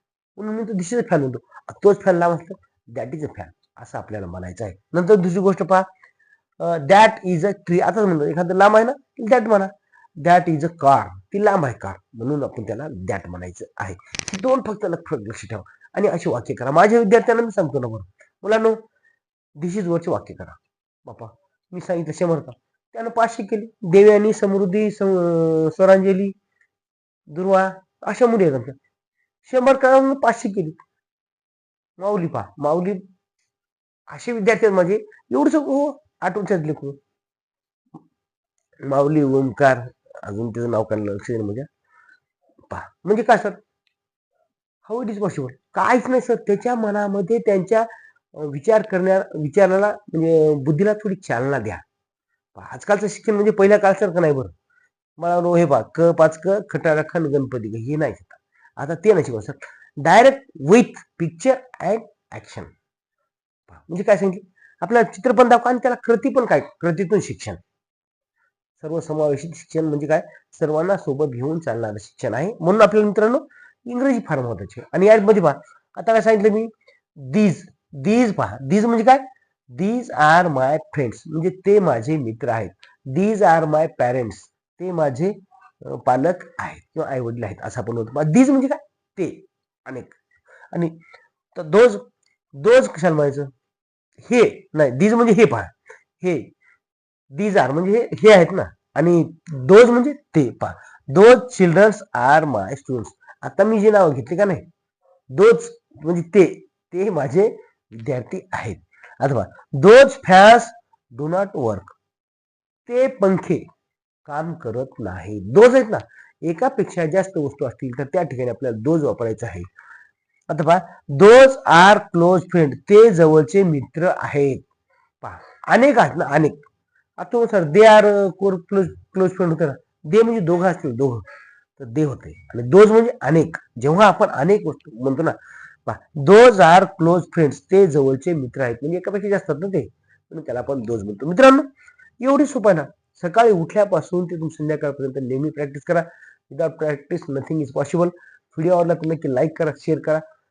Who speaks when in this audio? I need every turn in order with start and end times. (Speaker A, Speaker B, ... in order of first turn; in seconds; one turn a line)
Speaker A: 0.4-5.8
Speaker A: 6.6-18.8
Speaker A: 19.6-26.3
Speaker A: 27.3-28.8
Speaker A: 29.4-30.8
Speaker A: 32.0-33.0
Speaker A: 34.1-37.0
Speaker A: 38.8-41.7
Speaker A: 42.7-43.6
Speaker A: 44.9-51.8
Speaker A: 52.5-54.5
Speaker A: 55.2-62.7
Speaker A: 63.7-67.6
Speaker A: 68.8-90.2
Speaker A: 90.7-91.0
Speaker A: 91.5-92.0
Speaker A: 92.5-93.5
Speaker A: 94.2-96.5
Speaker A: 97.3-104.7
Speaker A: 105.3-111.9
Speaker A: 112.8-113.6
Speaker A: 114.2-119.7
Speaker A: 120.5-124.6
Speaker A: 125.2-126.6
Speaker A: 127.2-131.2
Speaker A: 131.8-141.7
Speaker A: 142.2-150.2